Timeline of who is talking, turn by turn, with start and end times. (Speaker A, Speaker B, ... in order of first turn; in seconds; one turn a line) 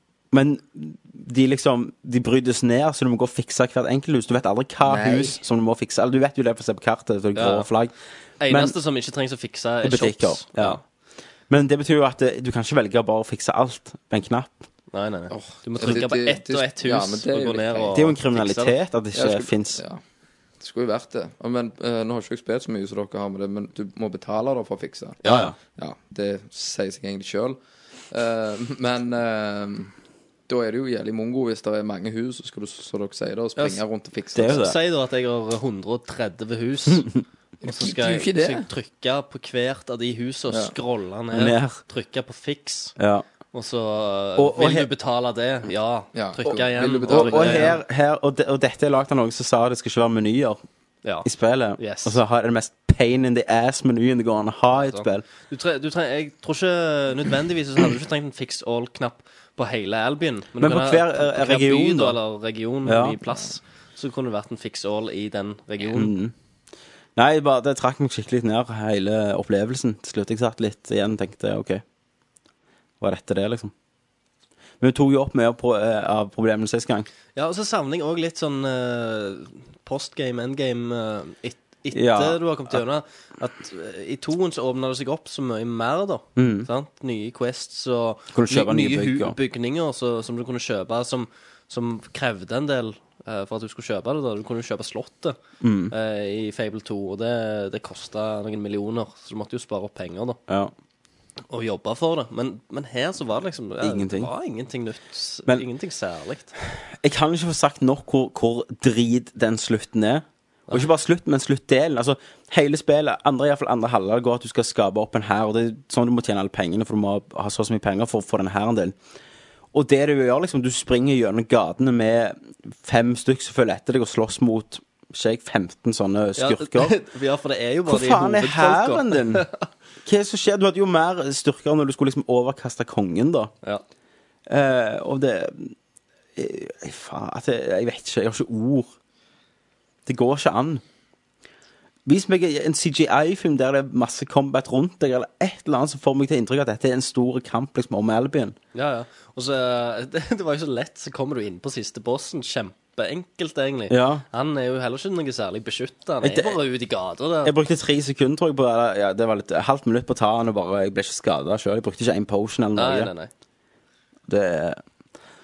Speaker A: 0.3-7.9
Speaker B: 4.8-5.4
Speaker C: 7.3-7.7
Speaker C: 8.4-10.8
Speaker A: 8.5-8.8
Speaker A: 9.8-10.8
Speaker A: 11.5-14.6
Speaker C: 14.9-18.7
Speaker B: 15.3-18.0
Speaker A: 17.9-19.8
Speaker B: 19.1-20.0
Speaker B: 20.6-27.6
Speaker C: 25.2-25.5
Speaker A: 25.2-25.6
Speaker B: 28.1-29.9
Speaker B: 30.5-34.6
Speaker C: 33.6-33.8
Speaker A: 34.4-34.8
Speaker C: 34.4-37.1
Speaker A: 36.9-37.2
Speaker B: 37.6-38.7
Speaker C: 37.6-43.0
Speaker A: 41.3-41.8
Speaker A: 43.0-43.3
Speaker C: 43.5-47.8
Speaker A: 44.4-44.9
Speaker B: 46.1-47.8
Speaker A: 47.1-50.6
Speaker C: 51.0-52.2
Speaker A: 51.2-55.3
Speaker C: 54.7-66.1
Speaker A: 60.6-62.2
Speaker A: 62.9-63.2
Speaker A: 65.8-66.3
Speaker A: 67.2-71.8
Speaker A: 73.0-73.7
Speaker A: 74.8-77.1
Speaker C: 77.4-95.4
Speaker A: 81.9-82.8
Speaker A: 86.4-86.7
Speaker A: 88.3-89.4
Speaker A: 95.6-95.9
Speaker C: 95.9-100.4
Speaker C: 101.5-106.5
Speaker A: 103.8-104.3
Speaker A: 107.0-119.0
Speaker A: 119.7-127.0
Speaker C: 126.4-129.6
Speaker A: 127.9-129.4
Speaker A: 130.1-133.5
Speaker A: 134.5-135.8
Speaker A: 136.4-138.9
Speaker A: 140.1-140.8
Speaker A: 142.1-148.6
Speaker C: 148.7-157.6
Speaker A: 153.9-154.2
Speaker A: 156.2-156.6
Speaker A: 157.4-163.1
Speaker C: 162.8-163.3
Speaker A: 164.3-164.8